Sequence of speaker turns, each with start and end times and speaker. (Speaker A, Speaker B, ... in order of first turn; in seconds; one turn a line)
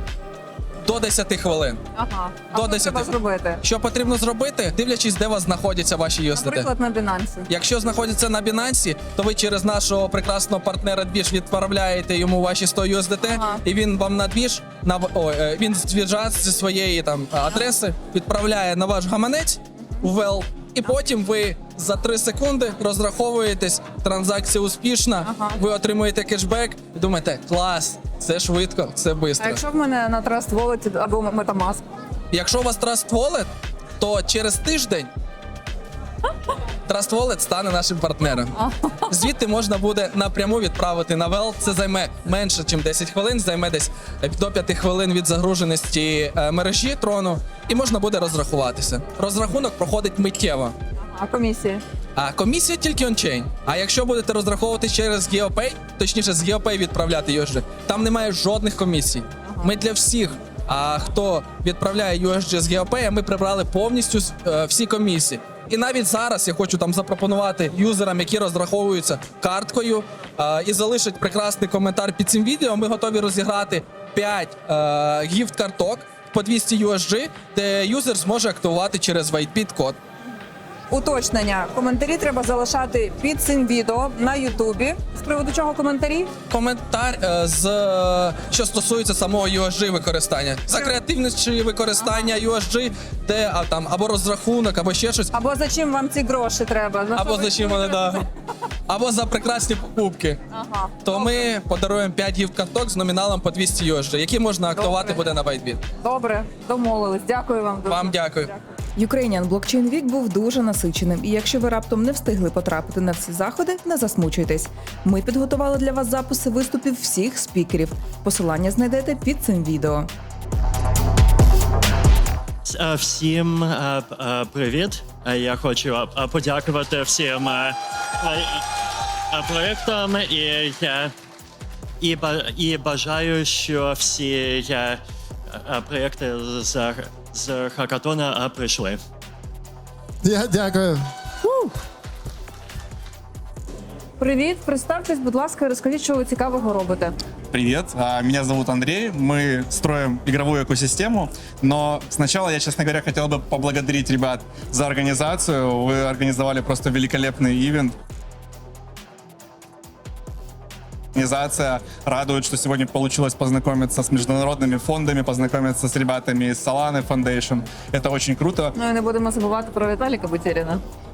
Speaker A: 0.8-1.8
Speaker B: 1.9-3.6
Speaker A: 2.5-6.7
Speaker B: 6.3-7.5
Speaker A: 7.5-29.6
Speaker B: 13.3-13.6
Speaker B: 25.2-25.6
Speaker B: 29.4-31.8
Speaker A: 32.3-35.1
Speaker A: 36.9-50.7
Speaker B: 38.5-39.1
Speaker B: 51.0-51.8
Speaker A: 52.1-80.0
Speaker B: 80.9-86.3
Speaker A: 86.5-95.3
Speaker B: 92.0-92.3
Speaker B: 95.3-98.3
Speaker A: 97.1-98.2
Speaker A: 98.9-100.4
Speaker B: 100.5-101.5
Speaker A: 101.0-105.8
Speaker B: 104.8-105.2
Speaker B: 106.0-108.7
Speaker A: 107.9-108.5
Speaker C: 109.0-120.1
Speaker D: 122.6-128.6
Speaker D: 129.3-131.1
Speaker D: 132.0-139.0
Speaker B: 144.2-147.1
Speaker E: 147.5-157.9
Speaker E: 161.1-168.7
Speaker B: 168.8-170.8